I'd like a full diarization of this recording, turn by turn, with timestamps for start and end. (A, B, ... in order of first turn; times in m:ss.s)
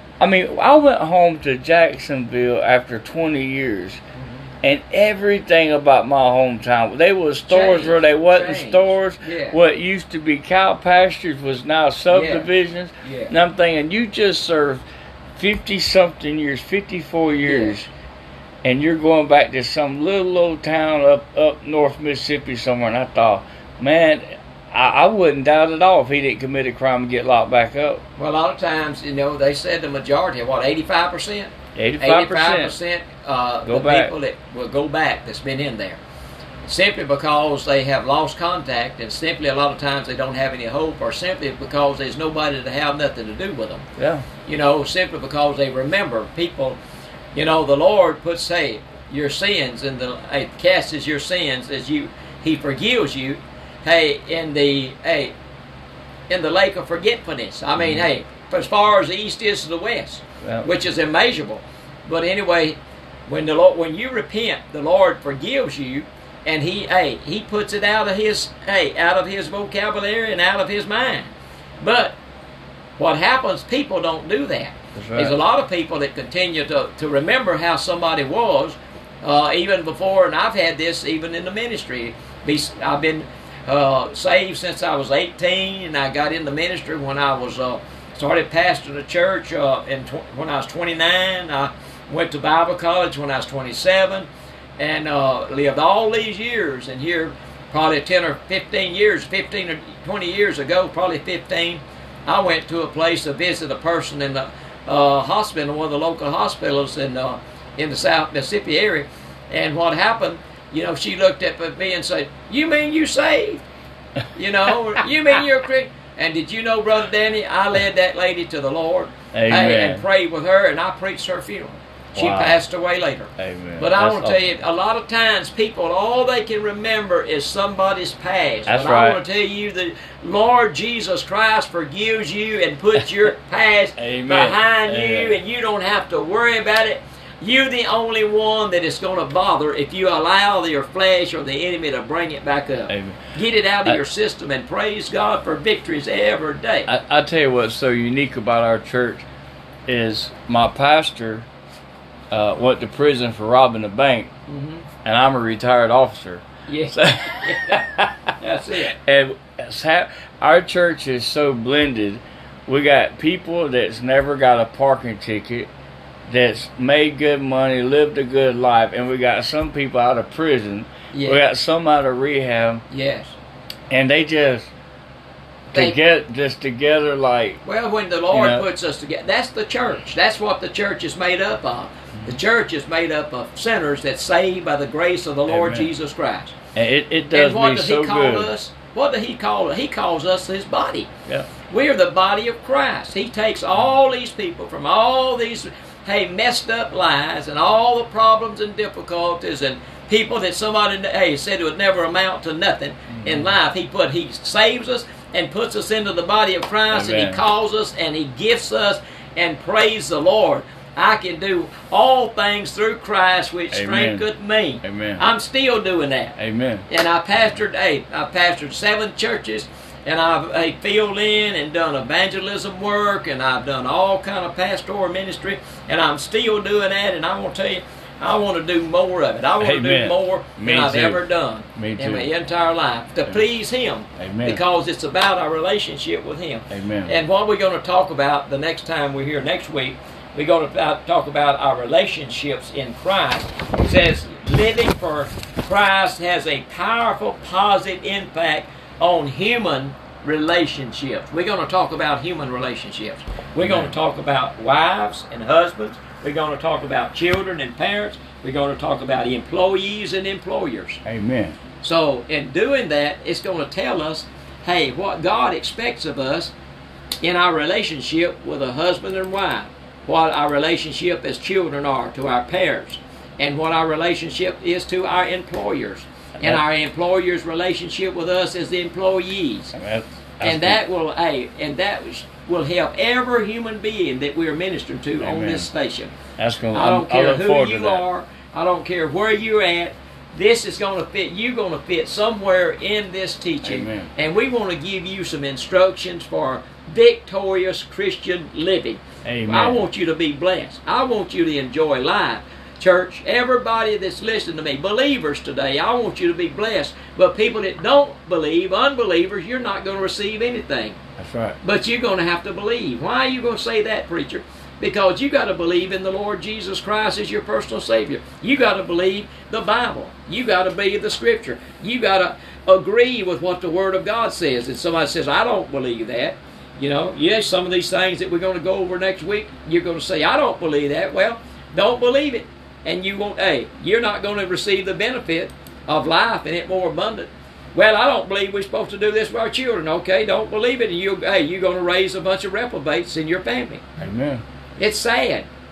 0:00.2-0:04.0 A
0:04.6-0:14.8 A
0:07.5-0:09.6 B
0:12.1-0:12.5 B
0:13.0-0:13.3 B
0:15.4-0:17.9 A
0:17.4-0:17.7 B
0:18.6-0:28.0 A
0:28.2-0:36.0 B
0:31.8-0:32.8 A
0:33.6-0:34.1 A
0:36.7-0:43.9 B
0:44.0-0:44.3 A
0:44.4-0:46.8 B
0:47.3-0:55.3 B
0:56.3-1:12.2 B
1:00.4-1:00.7 A
1:13.0-1:53.6 B
1:15.0-1:15.4 A
1:54.3-2:26.9 B
1:59.3-2:00.0 A
2:02.2-2:02.6 A
2:03.4-2:04.6 A
2:08.7-2:09.2 A
2:14.0-2:15.4 A
2:22.9-2:23.2 A
2:26.9-2:29.3 A
2:29.9-2:31.5 A
2:32.3-2:34.3 A
2:34.5-2:34.9 B
2:35.0-2:38.3 A
2:36.7-2:37.8 B
2:38.4-2:38.9 B
2:38.9-2:45.7 A
2:46.3-2:52.8 A
2:51.1-2:51.4 B
2:52.9-2:53.4 B
2:53.9-2:54.7 A
2:55.7-2:56.0 B
2:55.7-2:57.6 A
2:57.6-3:06.6 B
2:58.3-2:58.6 A
3:05.5-3:05.9 A
3:06.8-3:08.5 A
3:07.3-3:11.1 B
3:11.6-4:21.0 B
3:23.1-3:23.5 A
3:26.9-3:27.4 A
3:33.7-3:34.3 A
3:34.8-3:35.2 A
3:36.4-3:36.9 A
3:49.6-3:51.2 A
3:51.8-3:52.3 A
3:54.2-3:54.6 A
3:56.7-3:57.2 A
4:13.6-4:14.0 A
4:21.0-4:21.6 A
4:21.8-4:26.5 B
4:27.2-4:39.8 B
4:39.8-4:40.8 A
4:40.4-4:46.1 B
4:45.2-4:45.7 A
4:46.4-4:48.0 A
4:46.7-5:11.0 B
4:53.6-4:54.1 A
4:59.2-4:59.9 A
5:11.2-5:11.6 A
5:11.6-5:43.8 B
5:44.0-5:44.4 A
5:44.8-5:45.5 B